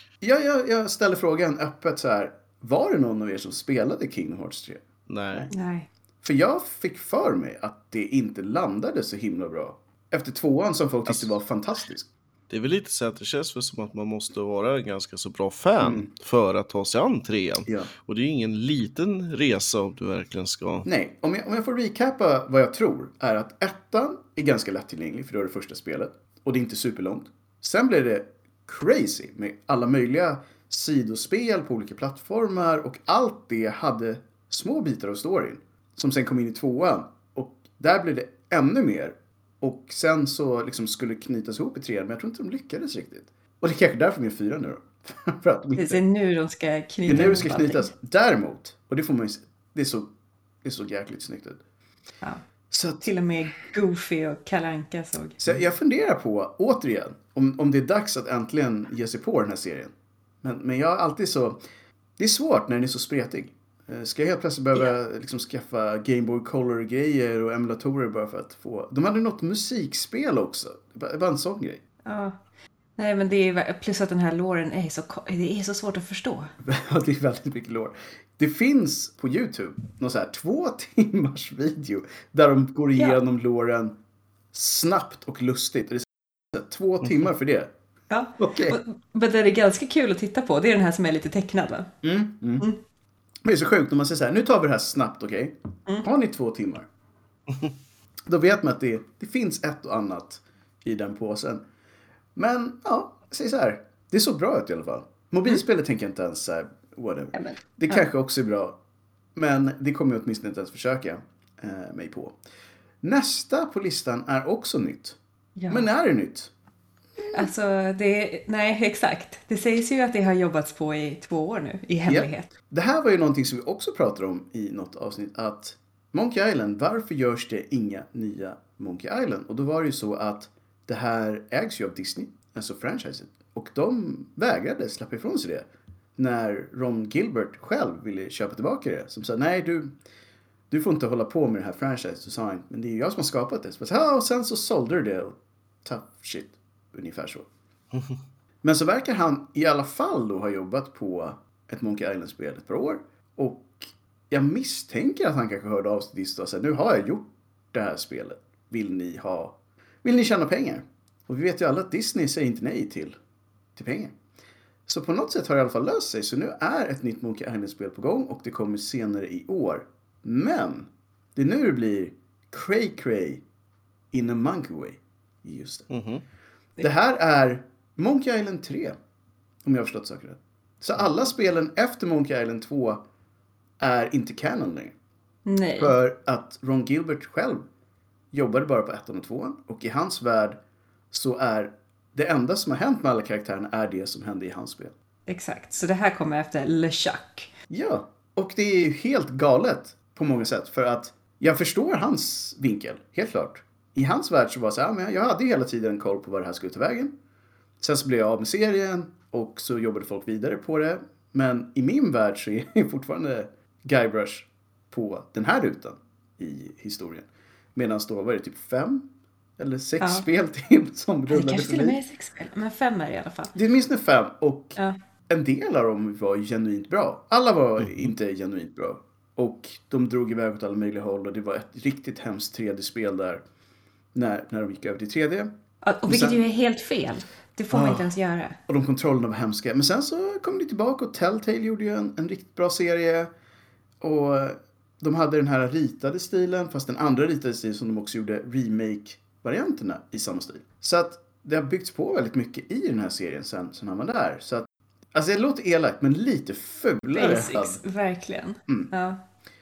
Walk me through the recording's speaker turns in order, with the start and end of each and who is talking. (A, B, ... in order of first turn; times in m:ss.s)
0:00.2-0:05.5 A
0:05.1-0:05.5 B
0:05.5-0:05.9 C
0:06.2-0:12.1 A
0:12.5-0:20.9 B
0:15.8-0:16.1 A
0:20.8-0:46.0 A
0:45.8-0:47.9 C
0:47.1-0:50.1 A
0:50.6-0:51.6 A
0:52.7-0:53.0 A
0:53.0-0:55.4 C
0:55.4-1:01.6 A
1:02.2-1:11.8 A
1:12.0-1:12.4 C
1:13.0-1:16.5 C
1:16.6-1:24.0 A
1:24.5-1:27.7 A
1:28.1-1:31.9 C
1:28.4-1:28.8 A
1:32.0-1:32.7 A
1:33.4-1:36.9 A
1:38.3-1:41.6 A
1:42.4-1:48.8 A
1:47.4-1:48.0 C
1:49.4-1:52.4 A
1:53.0-1:55.2 A
1:55.6-1:55.9 C
1:55.7-1:56.5 A
1:57.2-1:57.5 A
1:57.3-2:02.5 C
2:02.1-2:20.0 A
2:20.7-2:27.5 A
2:28.6-2:43.2 A
2:43.8-2:44.2 A
2:44.9-2:53.4 A
2:54.1-2:55.9 A
2:55.9-2:56.2 B
2:56.8-2:59.0 A
2:59.6-3:03.0 A
3:03.8-3:05.0 A
3:05.5-3:05.9 C
3:05.8-3:07.6 A
3:08.3-3:10.6 A
3:11.1-3:14.9 A
3:15.3-3:17.5 C
3:17.7-3:27.1 A
3:27.8-3:42.0 A
3:40.0-3:40.3 C
3:41.3-3:43.5 C
3:43.5-3:44.8 A
3:45.3-3:53.4 A
3:54.1-3:55.5 A
3:55.8-3:58.6 C
3:56.1-3:56.4 A
3:57.7-3:58.1 A
3:58.7-4:03.3 A
4:04.0-4:17.8 A
4:17.1-4:19.2 C